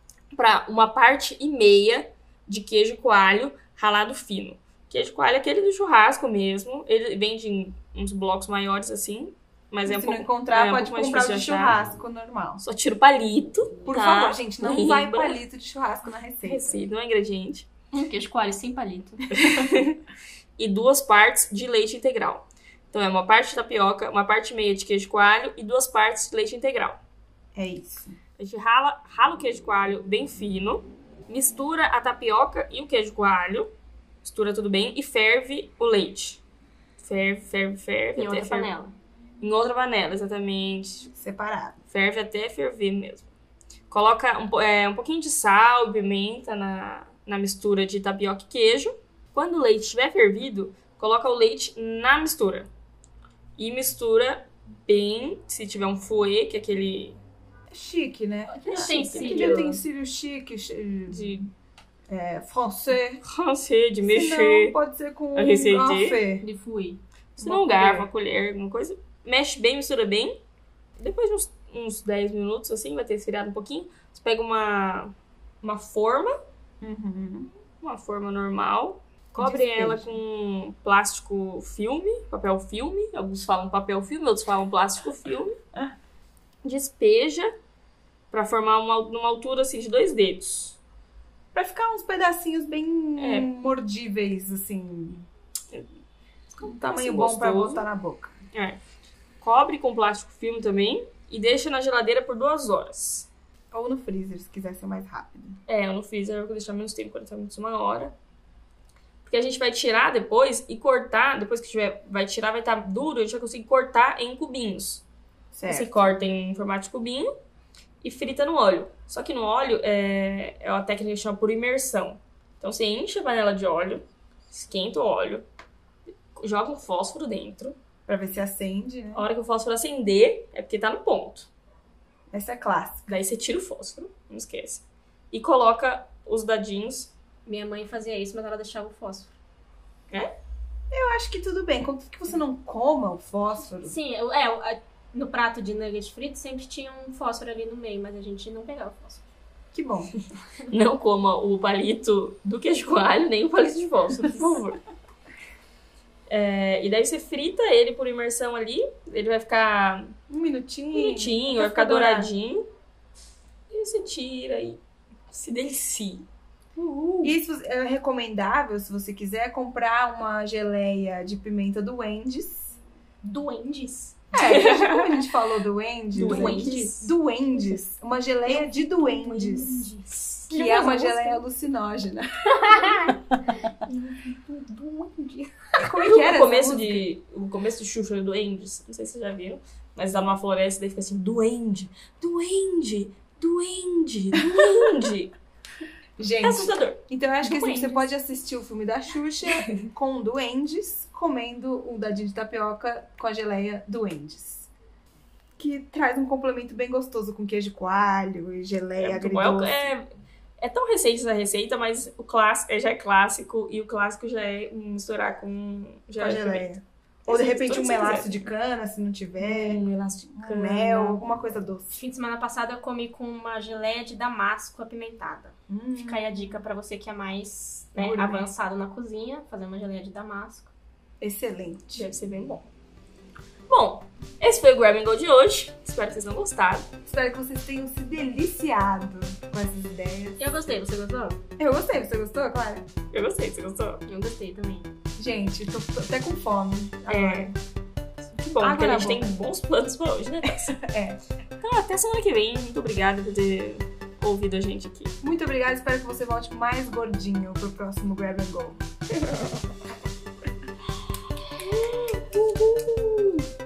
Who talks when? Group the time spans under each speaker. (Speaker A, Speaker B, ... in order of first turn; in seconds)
Speaker A: 0.3-11.8, 12.6-15.4, 16.4-17.6, 19.3-20.0, 20.6-27.0, 28.4-33.7, 34.2-36.4, 37.0-38.7, 39.4-41.1, 41.9-43.3, 43.9-52.7, 53.6-57.2, 58.6-59.7, 61.1-61.5, 63.2-64.7, 65.3-66.2, 67.4-70.4, 71.0-76.4, 77.8-85.6, 86.6-87.5, 88.3-90.8, 93.2-93.5, 96.6-97.8, 98.5-98.8, 99.4-103.3, 105.7-108.1, 109.2-115.0, 115.7-117.3, 118.0-125.4, 126.3-127.8, 129.1-131.5, 133.1-137.1, 150.7-154.8, 156.3-160.1, 160.9-162.7, 163.7-166.3, 174.4-175.1, 176.1-177.1, 179.0-180.5, 185.8-195.3, 196.4-198.0, 209.0-216.7, 217.3-218.5, 219.4-221.2, 231.9-232.7, 233.7-236.9, 243.1-244.0, 247.1-247.5, 248.2-250.8, 251.6-255.1, 259.2-259.5, 261.5-263.4
Speaker B: 9.9-12.6, 13.8-16.8, 27.5-28.2, 41.1-41.8, 57.7-61.4, 62.1-63.2, 64.0-66.4, 67.4-68.1, 76.8-77.5, 79.4-80.2, 91.5-95.3, 96.6-98.4, 103.7-105.6, 115.5-116.0, 128.1-129.2, 132.3-133.1, 140.9-143.9, 149.7-150.1, 160.3-162.3, 167.2-172.8, 174.3-179.9, 180.5-183.1, 184.2-187.1, 194.5-194.8, 196.2-204.7, 205.6-209.9, 216.2-221.9, 225.7-226.4, 228.0-228.5, 231.2-232.1, 237.0-240.4, 241.6-242.8, 245.2-247.5, 248.6-249.3, 250.7-251.2, 255.2-258.8
Speaker C: 17.9-19.4, 38.1-38.9, 58.6-59.8, 66.4-67.0, 137.4-139.3, 143.8-149.3, 167.0-167.3, 173.2-174.2, 176.2-176.8, 180.5-181.4, 182.7-183.1, 221.9-230.7, 240.4-241.4, 244.1-244.9